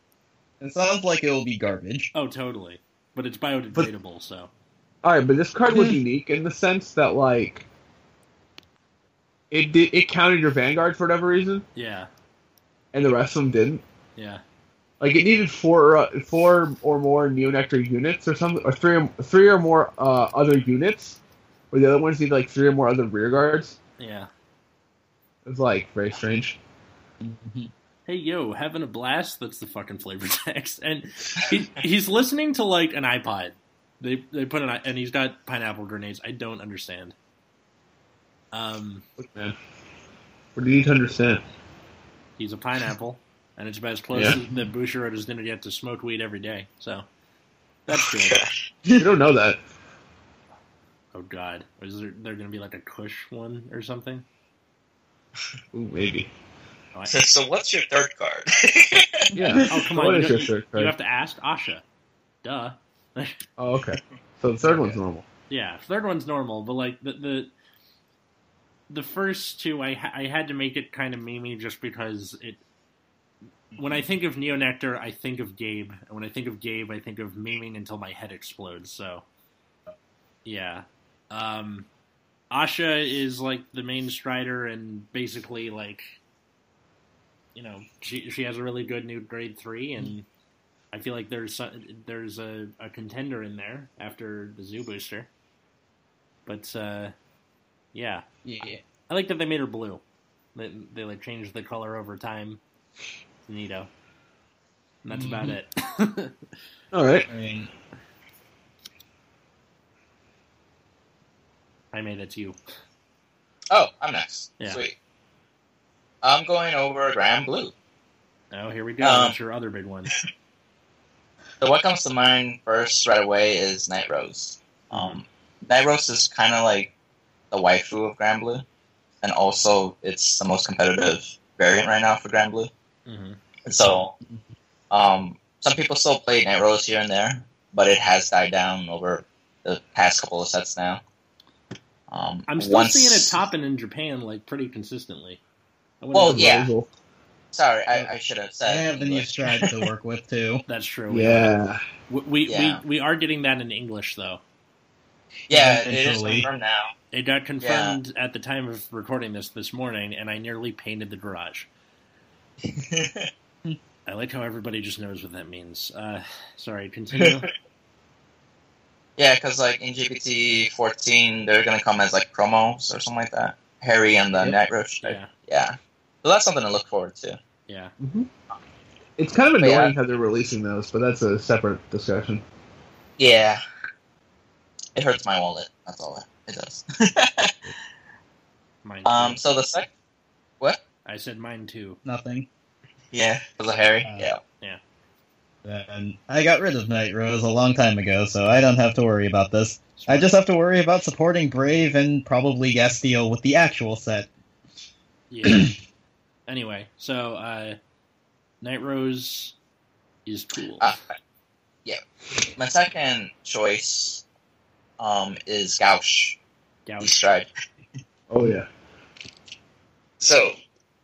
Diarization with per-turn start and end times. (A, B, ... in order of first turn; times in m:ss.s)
0:00.6-0:02.1 A
0:02.1-0:04.5 B
0:05.0-0:07.6 C
0:05.7-0:06.0 A
0:09.5-0:11.6 C
0:11.7-0:12.1 B
0:12.9-0:13.8 C
0:14.2-0:14.4 B
0:15.0-0:21.2 C
0:21.7-0:23.8 C
0:24.0-0:24.3 B
0:25.4-0:26.6 C
0:27.2-0:27.7 A
0:28.0-0:37.1 B
0:38.5-0:39.0 B
0:39.2-0:39.6 C
0:40.6-0:41.4 C
0:42.4-0:47.1 B
0:44.1-0:44.4 C
0:47.9-0:48.4 B
0:47.9-0:48.5 D
0:49.0-0:49.6 C
0:51.1-0:54.2 B
0:55.7-0:56.3 C
0:56.9-0:57.2 B
0:57.1-0:59.3 D
0:59.3-1:00.9 C
0:59.6-1:01.8 B
1:02.4-1:03.4 B
1:03.6-1:05.3 C
1:04.6-1:07.5 B
1:08.9-1:12.6 B
1:13.7-1:19.3 B
1:20.4-1:21.9 B
1:22.5-1:26.2 B
1:27.6-1:30.3 B
1:30.9-1:35.3 B
1:36.4-1:37.1 B
1:37.9-1:38.2 B
1:38.4-1:38.8 A
1:39.1-1:40.0 B
1:40.6-1:42.6 B
1:43.5-1:43.9 B
1:45.0-1:46.4 B
1:45.1-1:45.6 A
1:46.9-1:47.3 C
1:47.3-1:47.7 A
1:51.9-1:52.6 B
1:53.7-1:54.9 D
1:56.2-1:57.7 D
1:58.5-2:00.1 B
1:59.0-1:59.4 D
2:01.6-2:06.9 D
2:04.9-2:05.2 B
2:07.5-2:08.6 D
2:09.2-2:12.7 D
2:13.0-2:13.4 B
2:13.6-2:14.1 D
2:14.9-2:21.0 D
2:22.1-2:23.4 D
2:22.5-2:25.4 B
2:26.0-2:26.5 B
2:26.1-2:26.7 D
2:26.3-2:26.9 C
2:27.5-2:29.7 D
2:28.6-2:30.6 A
2:30.7-2:31.6 B
2:31.1-2:31.8 C
2:32.1-2:34.4 B
2:32.5-2:32.8 D
2:35.5-2:36.9 D
2:35.5-2:36.5 A
2:37.1-2:41.7 B
2:37.6-2:38.0 D
2:42.7-2:43.3 D
2:44.0-2:47.5 B
2:49.2-2:57.4 D
2:55.0-2:55.3 B
2:57.7-2:57.9 B
2:58.0-2:58.3 C
2:59.2-3:02.4 C
2:59.6-2:59.9 D
3:03.2-3:03.6 D
3:04.9-3:07.7 D
3:08.8-3:09.4 B
3:09.0-3:09.9 D
3:11.0-3:12.0 B
3:12.0-3:12.5 A
3:13.1-3:14.4 D
3:15.6-3:24.3 A
3:20.0-3:20.3 B
3:25.3-3:25.7 B
3:25.4-3:25.7 A
3:26.5-3:27.8 B
3:28.6-3:29.6 B
3:30.3-3:30.9 B
3:32.6-3:34.2 D
3:35.0-3:36.4 D
3:36.9-3:37.1 B
3:37.0-3:37.5 D
3:38.3-3:38.7 C
3:40.2-3:40.6 D